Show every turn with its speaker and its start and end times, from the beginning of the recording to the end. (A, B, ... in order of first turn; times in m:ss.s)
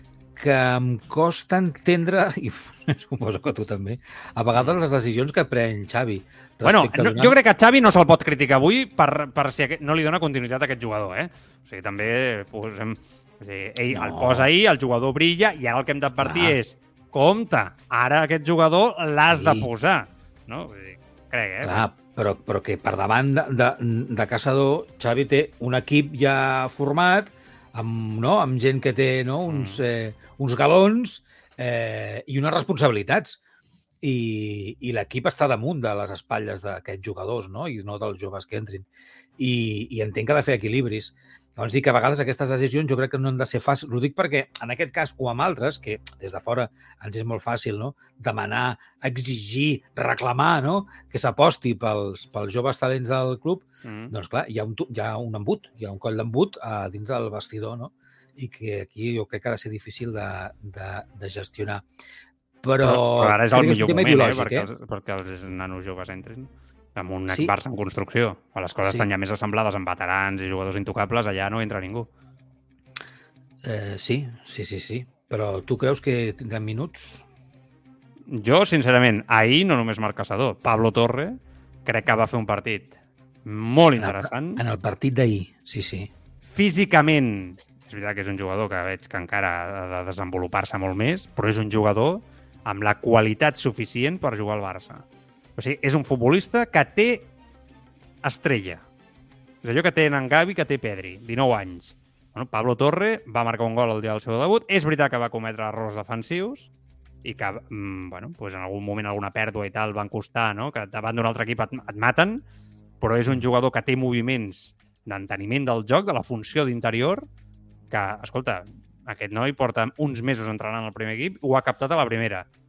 0:00.3-0:07.3 A
0:06.6-0:21.8 B
0:13.9-0:14.5 A
0:16.2-0:16.6 A
0:19.3-0:19.7 A
0:21.6-0:33.4 A
0:29.5-0:29.8 B
0:34.0-0:38.9 A
0:39.4-1:01.8 A
0:53.8-0:54.1 B
1:02.6-1:04.7 A
1:02.8-1:12.1 B
1:13.6-1:17.2 A
1:18.3-1:24.6 B
1:24.0-1:26.1 A
1:26.5-1:35.0 B
1:35.6-1:37.3 B
1:38.2-1:38.8 B
1:39.6-1:46.7 B
1:47.2-1:52.4 B
1:53.0-1:57.3 B
1:57.9-2:02.5 B